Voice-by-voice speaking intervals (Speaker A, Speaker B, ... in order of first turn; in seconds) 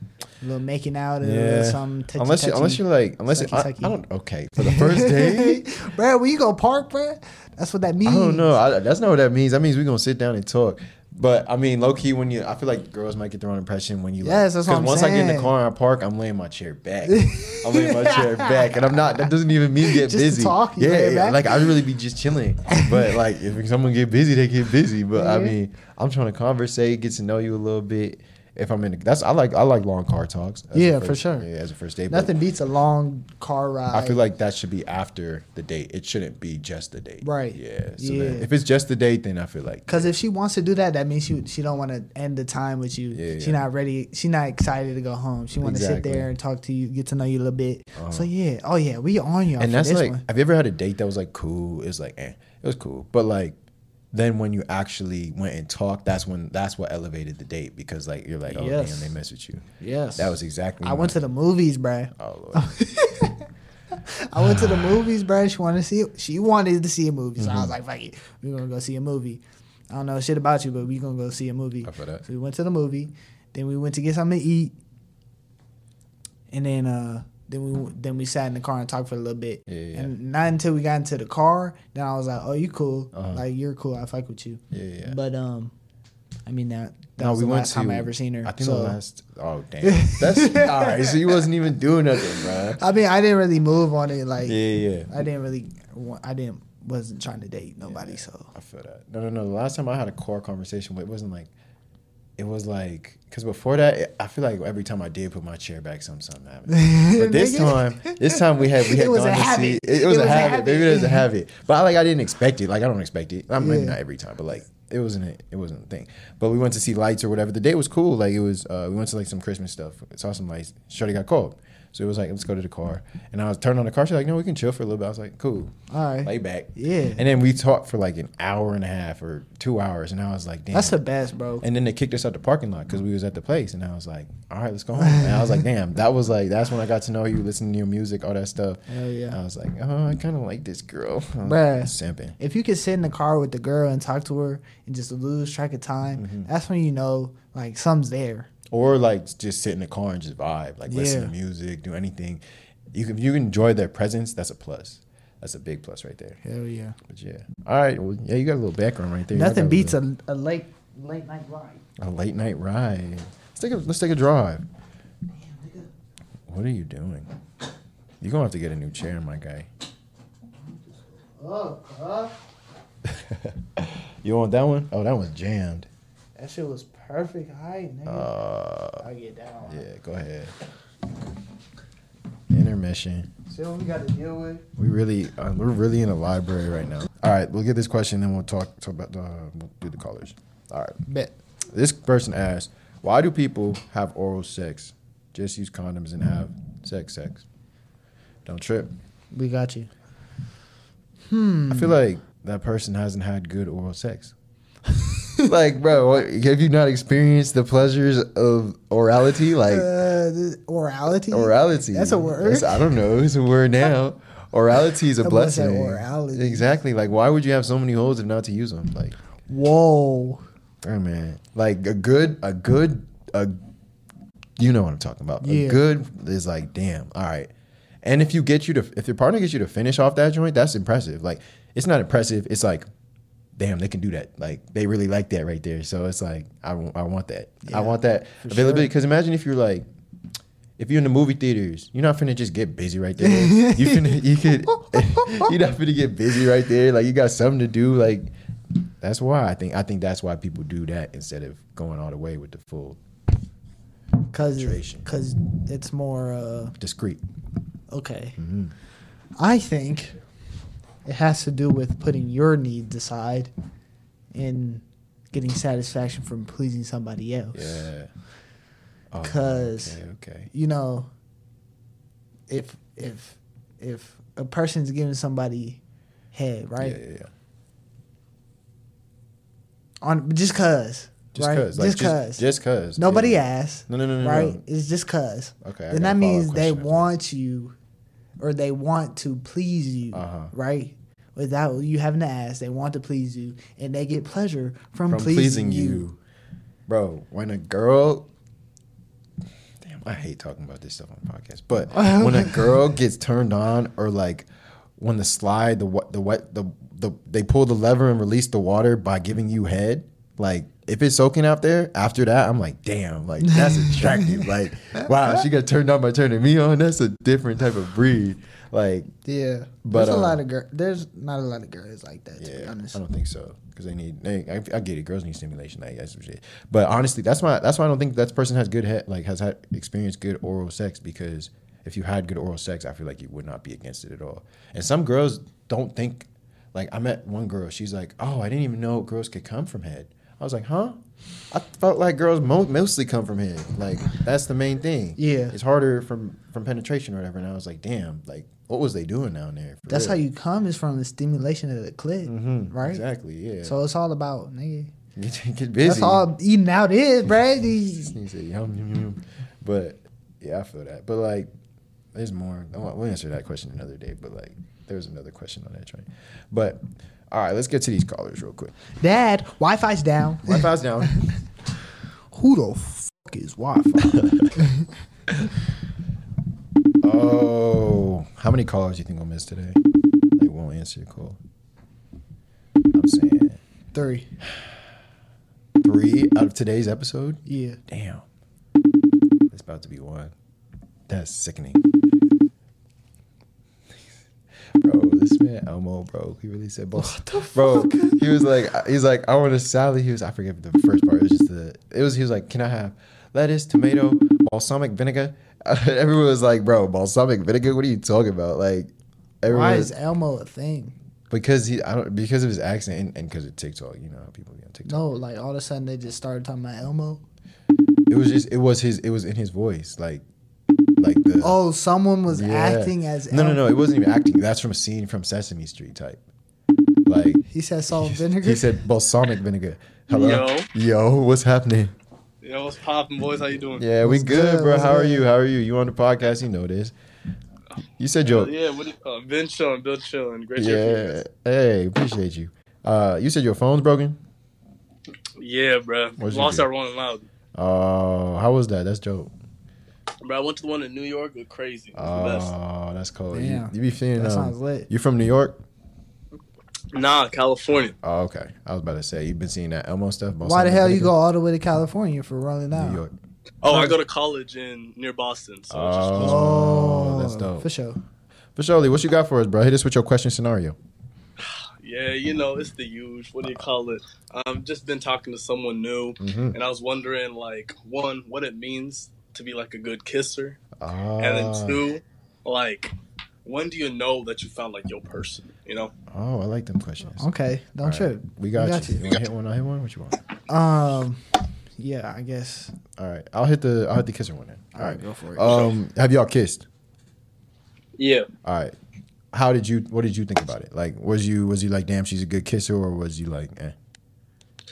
Speaker A: 0.4-4.0, 4.6-8.6, 14.2-15.5, 17.1-19.3, 19.8-21.7, 22.7-23.2, 25.2-25.6, 30.7-31.5, 32.1-34.2, 37.2-38.5, 39.9-50.2, 58.5-59.1, 59.8-74.8, 76.5-85.7, 86.5-89.0, 89.8-91.2, 92.7-98.5, 106.7-111.2, 113.5-114.0, 125.9-127.2, 130.7-131.7, 135.0-135.7, 138.9-139.4, 141.4-148.5, 150.9-151.3, 156.4-157.0, 159.3-161.8, 165.4-165.9, 170.7-172.4, 176.4-178.3, 179.0-179.9, 183.5-184.7, 191.1-191.3, 199.3-199.9, 201.3-201.9, 209.7-213.0, 215.2-216.7, 219.5-220.4, 225.4-225.8, 237.7-238.9, 243.2-244.2, 254.3-256.7, 257.9-258.4, 259.4-260.2, 261.1-263.5, 264.3-267.9, 269.2-270.0, 270.5-271.1, 272.5-275.8, 276.3-277.0, 280.0-282.4, 283.0-287.8, 288.4-296.1, 301.9-302.8, 313.4-314.4, 319.2-323.0, 345.2-345.6, 349.9-353.0, 353.6-354.9, 355.8-358.2, 369.0-371.2, 372.3-374.9, 383.9-384.3, 387.5-387.8, 397.0-398.3, 409.5-410.9, 414.9-417.2, 421.4-423.6, 427.5-428.8, 434.0-435.3, 453.3-454.9, 460.4-463.0, 463.7-463.9, 466.2-468.0, 487.2-489.1, 490.5-491.2, 491.8-492.7, 494.8-495.6
Speaker B: 1.2-5.7, 8.1-32.4, 33.9-40.1, 43.1-43.6, 45.6-46.3, 48.0-48.3, 49.6-53.6, 54.1-59.6, 60.2-61.2, 62.2-62.8, 64.4-65.0, 67.4-67.7, 71.8-72.2, 79.7-80.1, 83.1-83.4, 84.7-85.2, 87.2-92.8, 94.4-95.2, 97.8-101.5, 102.4-131.0, 131.6-142.4, 146.2-146.5, 148.7-152.4, 152.9-156.4, 157.1-160.0, 162.0-164.7, 166.5-167.3, 168.2-169.7, 173.1-175.9, 178.1-179.0, 179.7-180.5, 182.5-183.3, 184.8-191.0, 191.7-197.5, 198.4-198.9, 201.7-204.3, 205.5-209.9, 211.3-219.2, 220.8-223.6, 224.6-227.5, 228.0-232.9, 233.6-239.9, 240.8-248.3, 249.0-253.0, 254.6-255.1, 256.8-257.2, 258.4-258.8, 267.5-268.1, 269.1-270.5, 276.8-277.3, 281.3-284.6, 285.6-287.1, 290.1-290.5, 295.1-296.2, 296.9-298.3, 299.8-319.1, 319.8-320.4, 322.4-350.2, 352.2-353.8, 355.2-356.3, 358.0-361.5, 362.1-368.7, 370.4-371.1, 374.0-374.6, 377.0-379.8, 380.4-381.4, 382.9-383.6, 384.4-384.7, 385.8-388.2, 389.5-390.3, 391.1-391.8, 394.8-408.9, 409.4-409.9, 411.3-415.0, 418.1-420.2, 421.0-421.6, 422.3-426.2, 427.1-431.9, 433.7-436.9, 438.0-438.5, 440.6-444.2, 446.2-446.7, 447.6-449.3, 451.9-455.6, 458.0-461.1, 462.7-463.1, 465.7-467.7, 468.6-470.8, 476.2-476.6, 480.8-481.8, 486.1-490.2, 493.0-496.7, 498.4-498.8, 499.3-503.8
Speaker C: 430.1-430.7, 432.4-433.9, 438.2-441.2, 445.4-447.2, 450.2-452.5, 456.9-458.0, 463.6-466.5, 471.4-480.6, 481.2-482.9, 483.4-485.9, 498.0-498.3